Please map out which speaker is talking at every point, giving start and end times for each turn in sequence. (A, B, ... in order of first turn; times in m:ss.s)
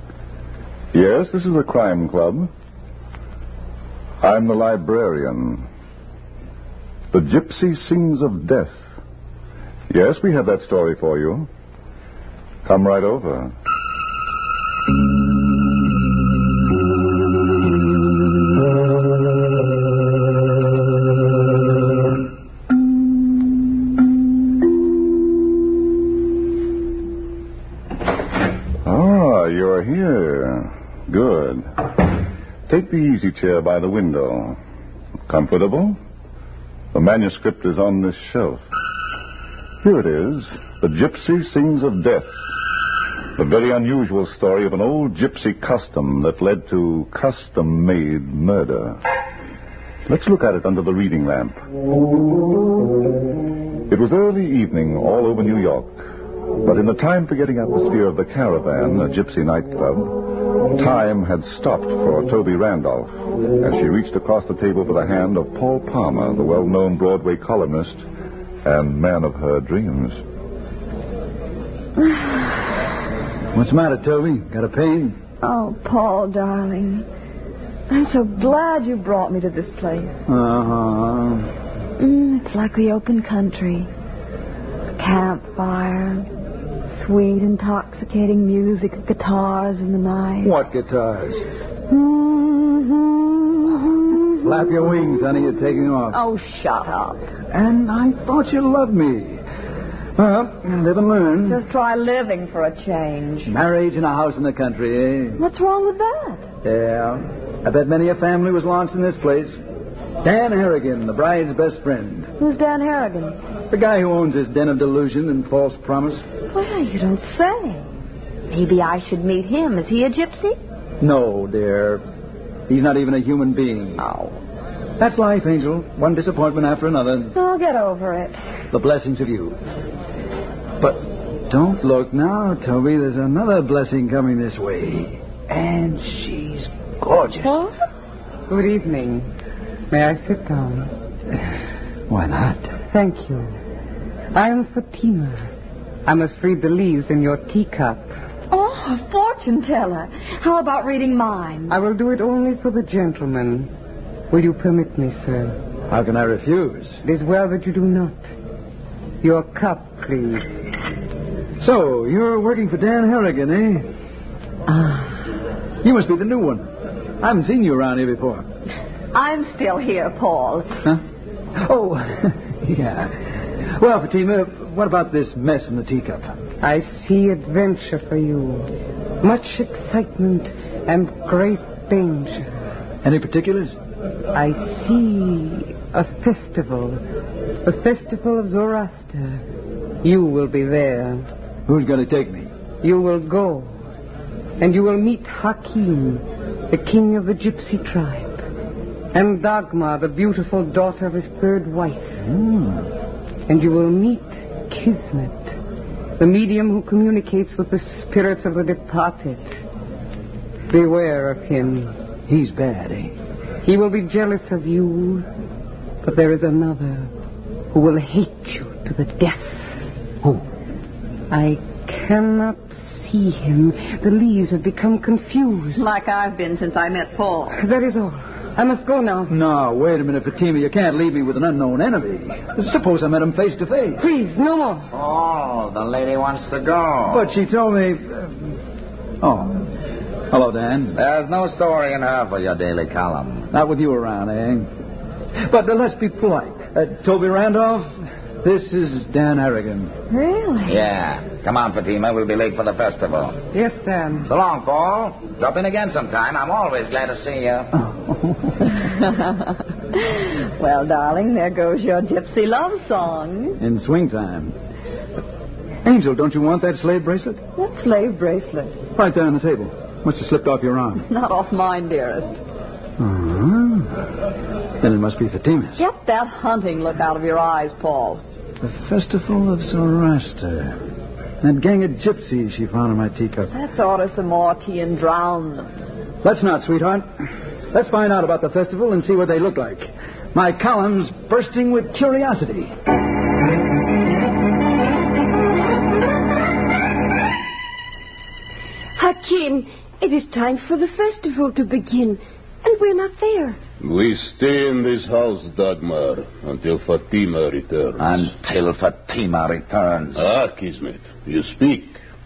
0:00.9-0:02.5 A
0:04.2-0:05.7 A
0:07.1-0:08.8 A
0:09.9-0:11.5 A
0:12.6-0:13.5 A
0:28.8-0:31.7 A
0:32.7-0:34.6 A
0:35.3-0:36.0 A
0:36.9-0:38.6 A
0:39.8-0:42.4 A
0:43.4-0:49.0 A
0:50.1-0:51.6 A
0:53.9-0:56.0 A
0:56.6-1:08.0 A
1:08.6-1:10.2 A
1:12.0-1:12.3 B
1:13.5-1:15.2 C
1:15.4-1:17.1 B
1:17.9-1:20.2 B
1:20.3-1:21.5 C
1:22.0-1:23.9 B
1:25.0-1:26.3 B
1:26.9-1:30.6 B
1:30.4-1:31.4 C
1:31.9-1:34.3 B
1:34.4-1:36.2 C
1:36.1-1:37.3 B
1:37.5-1:39.4 C
1:40.2-1:41.6 C
1:41.4-1:43.5 B
1:43.5-1:45.4 C
1:45.4-1:46.5 B
1:46.6-1:49.6 C
1:50.2-1:52.3 C
1:52.4-1:53.4 B
1:53.7-1:56.2 C
1:56.5-1:57.9 B
1:58.5-2:00.6 B
2:01.0-2:02.0 C
2:02.7-2:04.0 C
2:04.0-2:04.4 B
2:05.0-2:07.3 C
2:07.3-2:08.4 B
2:08.7-2:09.6 C
2:10.8-2:17.6 C
2:18.5-2:19.3 D
2:19.9-2:20.9 D
2:22.1-2:22.7 C
2:22.9-2:23.6 D
2:24.3-2:25.5 D
2:26.1-2:28.1 D
2:28.5-2:31.8 B
2:31.7-2:33.7 D
2:34.3-2:35.6 D
2:35.9-2:37.0 C
2:37.0-2:38.2 D
2:39.2-2:40.5 D
2:41.6-2:43.9 C
2:45.8-2:46.7 C
2:47.2-2:48.4 C
2:49.1-2:50.8 B
2:51.6-2:56.3 C
2:56.6-2:58.7 D
2:59.2-3:02.5 D
3:03.0-3:03.8 C
3:04.3-3:07.0 D
3:07.6-3:09.4 D
3:10.0-3:11.3 D
3:11.7-3:12.5 C
3:12.8-3:13.7 D
3:14.6-3:18.4 D
3:19.1-3:22.2 D
3:22.2-3:22.9 C
3:23.5-3:25.6 D
3:26.2-3:29.6 D
3:30.7-3:32.0 D
3:32.3-3:33.1 C
3:33.6-3:35.3 D
3:36.0-3:37.1 D
3:37.7-3:39.7 D
3:41.3-3:45.9 D
3:45.8-3:47.6 B
3:47.6-3:49.4 D
3:49.3-3:54.0 C
3:54.0-3:54.9 D
3:54.9-3:57.2 E
3:57.1-3:58.4 C
3:59.2-3:59.6 C
4:00.3-4:01.0 C
4:01.0-4:03.5 E
4:03.5-4:04.7 C
4:05.4-4:09.9 C
4:10.1-4:10.8 B
4:10.6-4:13.4 E
4:13.5-4:14.3 D
4:14.3-4:17.7 E
4:17.7-4:18.7 C
4:18.9-4:23.6 B
4:23.6-4:24.6 C
4:25.8-4:27.4 C
4:27.6-4:28.8 B
4:28.9-4:31.0 C
4:31.0-4:32.4 B
4:33.0-4:34.0 C
4:34.8-4:35.8 C
4:35.8-4:38.2 B
4:38.6-4:40.8 C
4:41.4-4:43.5 C
4:43.5-4:45.7 B
4:46.2-4:47.1 C
4:47.7-4:52.7 C
4:59.0-5:03.6 F
5:03.8-5:08.2 G
5:08.0-5:10.3 E
5:10.2-5:12.0 G